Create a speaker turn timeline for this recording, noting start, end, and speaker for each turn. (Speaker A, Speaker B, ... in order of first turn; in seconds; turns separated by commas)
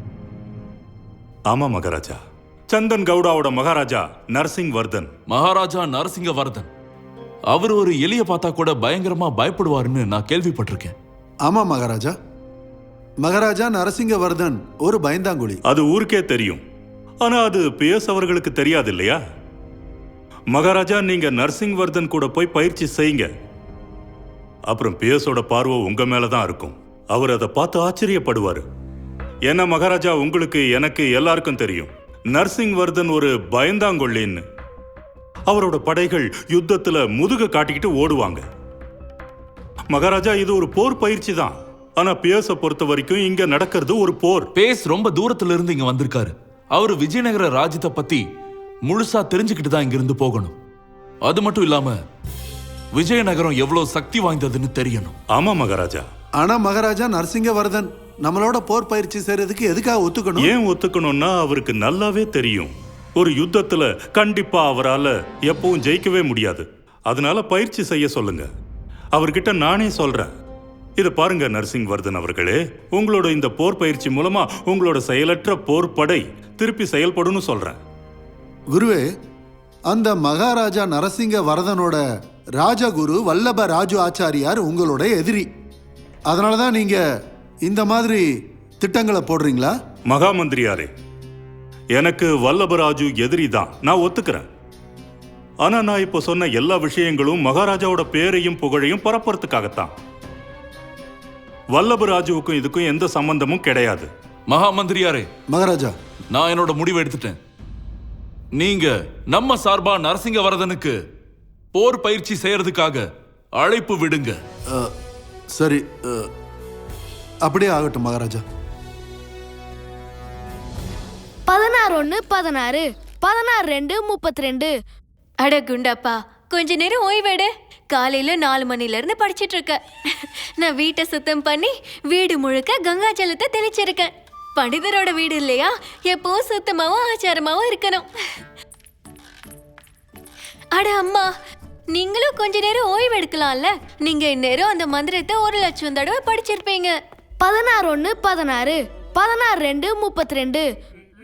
Speaker A: 1.5-2.2, Speaker A: 2.7-5.1, Speaker B: 5.3-6.7, Speaker B: 7.5-10.9, Speaker C: 11.4-12.1, Speaker C: 13.2-15.6, Speaker A: 15.7-16.6, Speaker A: 17.2-19.2, Speaker A: 20.5-23.3, Speaker A: 24.7-28.6, Speaker A: 29.4-34.4, Speaker A: 35.5-38.4, Speaker A: 39.9-44.5, Speaker B: 44.5-48.2, Speaker B: 48.9-50.5, Speaker B: 51.2-52.0, Speaker B: 52.9-55.1, Speaker A: 55.3-56.0, Speaker C: 56.4-60.5, Speaker A: 60.4-68.5, Speaker A: 69.2-70.3, Speaker A: 71.0-77.8, Speaker C: 78.7-79.0, Speaker C: 79.9-82.0, Speaker C: 82.6-85.5, Speaker C: 86.3-87.0, Speaker C: 87.7-88.2, Speaker C: 88.8-89.7, Speaker A: 90.1-90.9, Speaker A: 92.0-94.4, Speaker A: 95.6-99.9, Speaker A: 101.8-104.1, Speaker B: 104.5-105.3, Speaker C: 105.5-105.9, Speaker B: 106.3-107.4, Speaker B: 108.5-111.0, Speaker B: 111.7-114.4, Speaker C: 115.5-116.3, Speaker C: 117.4-118.4, Speaker D: 121.5-124.7, Speaker E: 125.4-138.1, Speaker E: 140.7-141.3, Speaker E: 141.9-146.9, Speaker D: 147.4-150.7